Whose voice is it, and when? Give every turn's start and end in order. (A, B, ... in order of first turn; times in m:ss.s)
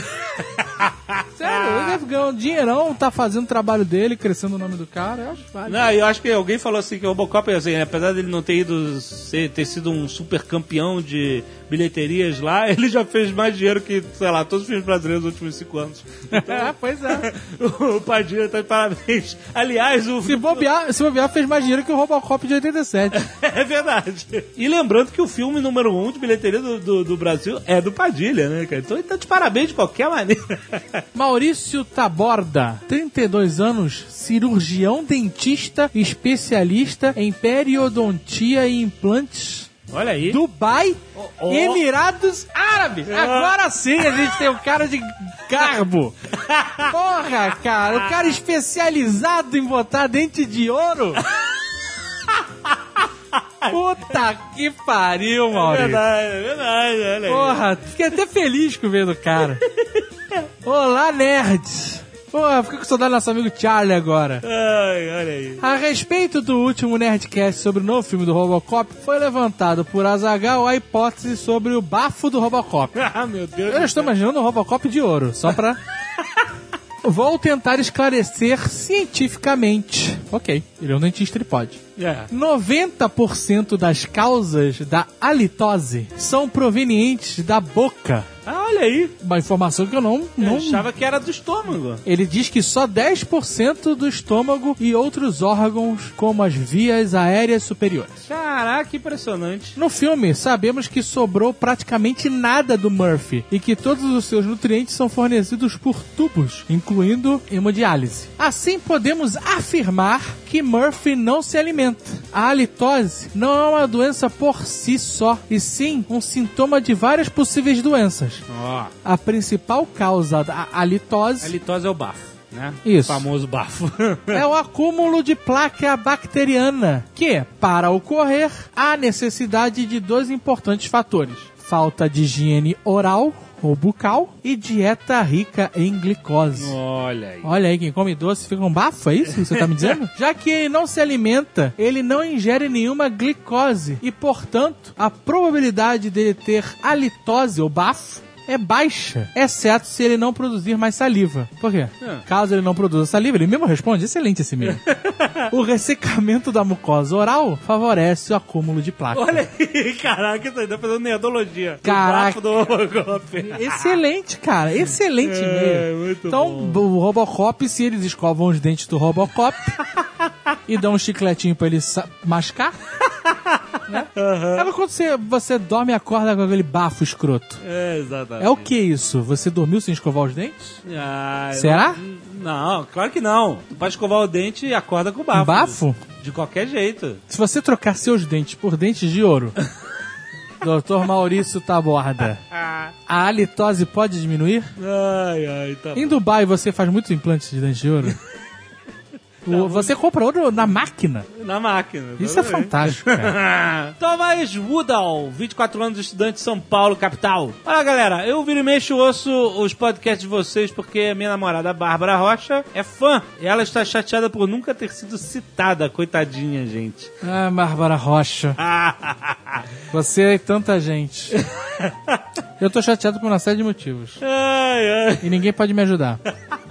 0:00.2-0:02.0 A
0:01.4-0:05.9 B
0:05.7-0:20.7 A
0:16.3-0:17.3 B
0:20.2-0:23.2 B
0:23.1-0:31.0 A
0:31.1-0:39.7 B
0:39.9-0:40.4 A
0:40.3-0:46.1 B
0:41.2-0:41.8 A
0:43.1-0:44.4 A
0:46.4-0:46.9 A
0:46.9-0:51.2 B
0:47.9-0:48.2 A
0:52.3-0:52.8 A
0:53.7-0:56.0 B
0:55.5-0:57.6 A
0:57.3-0:59.6 B
0:59.6-1:00.4 A
1:00.6-1:04.4 B
1:04.4-1:05.6 A
1:05.6-1:13.0 B
1:12.9-1:14.1 A
1:13.7-1:15.8 B
1:16.2-1:16.4 A
1:17.0-1:28.3 B
1:22.0-1:22.3 A
1:28.4-1:29.1 A
1:29.2-1:30.8 B
1:30.4-1:32.0 A
1:32.0-1:38.2 B
1:38.3-1:39.7 A
1:39.8-1:58.4 B
1:58.5-1:58.9 A
1:59.0-2:01.5 B
2:01.4-2:04.4 A
2:02.8-2:03.2 B
2:04.3-2:16.7 B
2:16.6-2:17.5 A
2:17.4-2:34.8 B
2:19.4-2:19.9 A
2:34.6-2:35.5 A
2:35.5-2:39.4 B
2:39.1-2:44.0 A
2:41.8-2:42.4 B
2:43.4-2:49.8 B
2:45.2-2:46.8 A
2:50.7-2:52.8 B
2:53.2-2:54.7 A
2:53.9-2:57.6 B
2:57.6-2:58.7 A
2:58.4-3:00.7 B
3:00.8-3:07.2 A
3:01.5-3:02.0 B
3:05.3-3:06.0 B
3:07.3-3:09.6 B
3:10.6-3:12.4 B
3:12.5-3:12.9 A
3:13.1-3:14.7 B
3:14.8-3:16.2 A
3:15.9-3:18.2 B
3:19.4-3:19.9 A
3:19.4-3:21.3 B
3:21.3-3:37.1 A
3:22.2-3:23.4 B
3:37.2-3:38.6 B
3:38.6-3:39.6 A
3:39.9-3:41.4 B
3:41.4-3:42.2 A
3:42.6-3:44.2 B
3:44.2-3:45.3 A
3:45.2-3:46.2 B